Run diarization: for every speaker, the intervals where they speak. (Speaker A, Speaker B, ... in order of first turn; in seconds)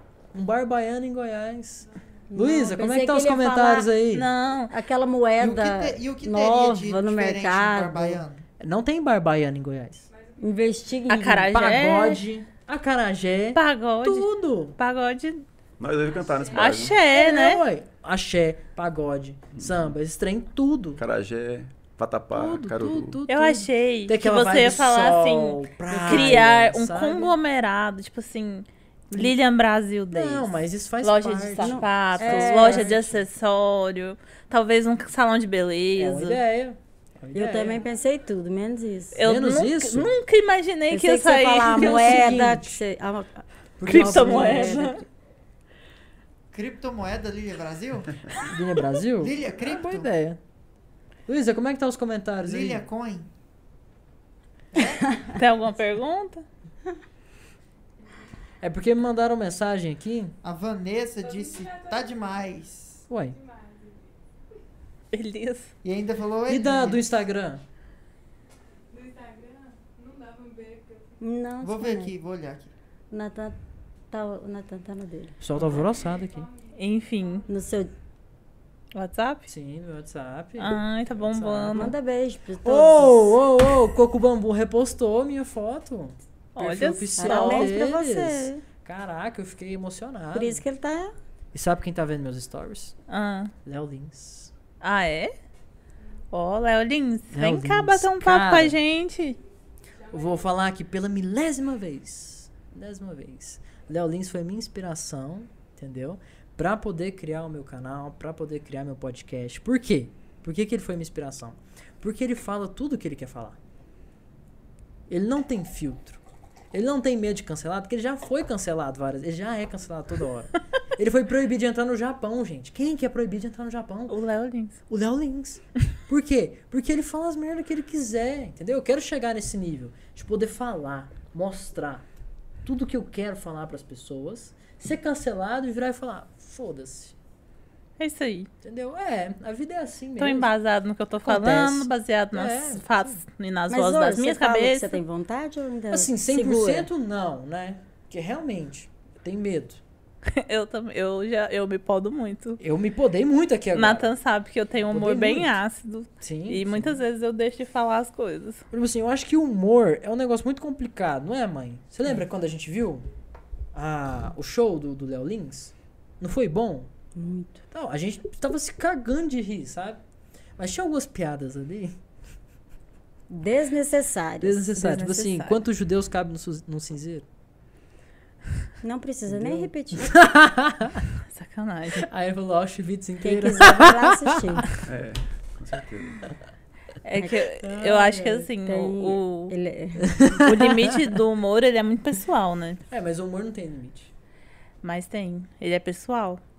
Speaker A: 0.3-4.3, 8.6-10.1, 11.5-14.8, 17.0-21.0, 22.3-27.3, 30.1-33.2, 36.0-37.8, 39.2-40.2, 41.7-42.8, 43.8-44.9, 48.5-50.4, 51.3-52.8, 58.6-60.3, 63.1-63.4, 66.5-67.6, 75.4-76.5, 79.5-81.9, 82.6-90.6, 91.5-92.9, 93.6-94.5, 97.3-98.8, 100.1-113.6, 115.1-116.2, 116.7-124.2, 124.9-132.1, 132.6-137.2, 138.6-140.5, 141.2-143.2, 145.9-149.8, 152.6-154.1, 154.9-155.5, 156.2-157.0, 158.7-163.1, 163.7-166.9, 167.7-170.0, 170.6-172.0, 174.4-177.2, 179.3-181.1, 182.0-184.7, 187.6-188.5, 190.0-190.9, 192.9-194.1
Speaker B: 2.3-3.9, 4.7-8.2, 10.4-11.5, 25.9-26.5, 31.6-33.0, 37.3-39.2, 40.9-45.0, 71.2-72.1, 73.1-73.6, 74.1-75.4, 77.5-77.9, 81.7-83.4, 87.2-88.6, 90.3-91.1, 143.7-146.9, 167.1-167.6, 173.3-175.4, 178.8-180.1, 183.2-184.7, 187.2-187.5, 188.5-190.4
Speaker C: 4.1-4.7, 11.1-12.2, 13.5-15.4, 16.5-17.6, 23.3-36.4, 39.1-42.4, 43.9-45.0, 55.3-56.4, 65.1-65.7, 76.7-77.5, 78.9-79.5, 80.6-81.9, 86.5-87.7, 93.1-93.5, 94.8-95.3, 96.3-99.4, 124.1-124.8, 138.0-138.5, 140.2-145.0, 150.2-152.6, 153.7-158.6, 174.8-175.5, 181.3-182.1, 187.0-189.5, 190.4-192.8, 194.8-196.4
Speaker D: 5.4-8.4, 46.5-48.3, 49.2-50.1, 52.4-53.3, 54.7-55.3, 60.4-63.1, 65.8-67.1, 71.6-72.7
Speaker E: 10.1-11.1, 16.0-16.9, 61.2-62.3, 63.2-64.1, 68.9-71.2, 75.6-77.6, 100.0-100.5
Speaker F: 15.8-17.0, 19.5-19.9, 20.9-23.2, 184.8-186.3